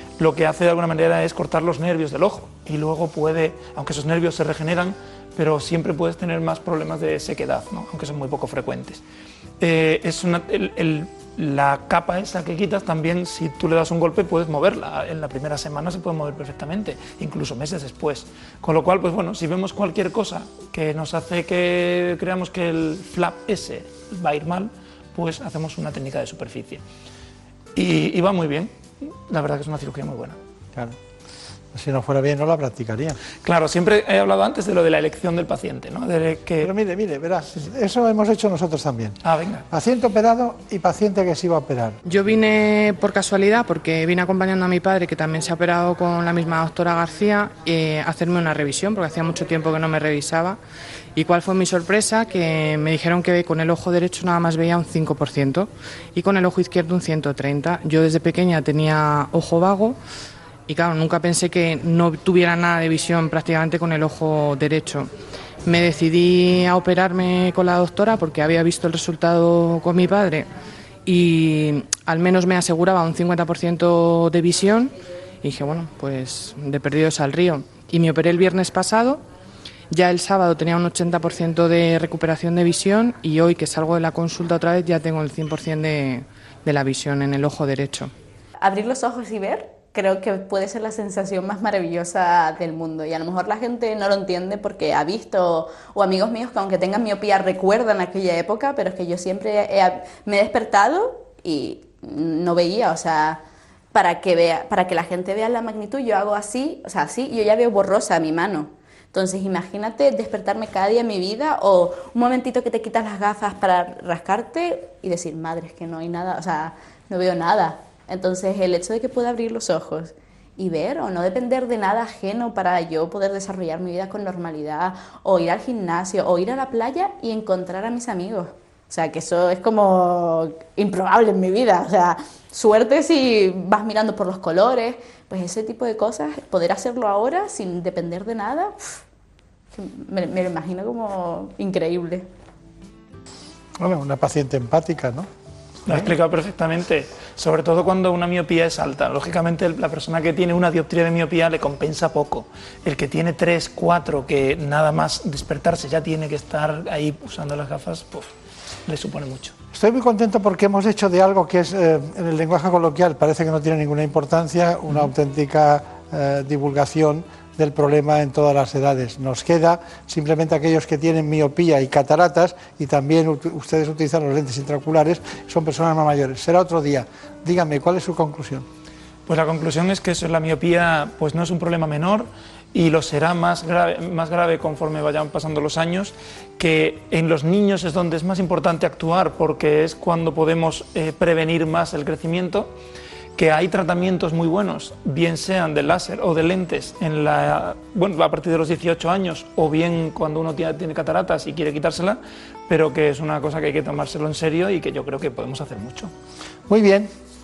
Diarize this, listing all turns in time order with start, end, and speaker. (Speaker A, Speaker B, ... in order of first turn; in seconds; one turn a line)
Speaker A: 0.2-9.0
Speaker A: 9.6-26.8
Speaker A: 27.8-30.4
Speaker B: 31.7-33.2
Speaker A: 33.4-36.7
Speaker B: 36.6-39.2
Speaker A: 39.2-39.7
Speaker B: 39.7-42.0
Speaker C: 42.0-50.6
Speaker C: 51.2-60.0
Speaker C: 60.7-65.1
Speaker C: 65.7-70.5
Speaker C: 71.1-79.2
Speaker C: 79.9-88.1
Speaker D: 88.6-103.4
Speaker D: 103.9-139.0
Speaker D: 139.7-142.3
Speaker B: 143.8-145.3
Speaker A: 145.9-158.3
Speaker B: 145.9-146.1
Speaker A: 158.9-159.6
Speaker B: 159.7-178.7
Speaker A: 179.3-192.7
Speaker A: 193.4-206.1
Speaker B: 206.7-207.1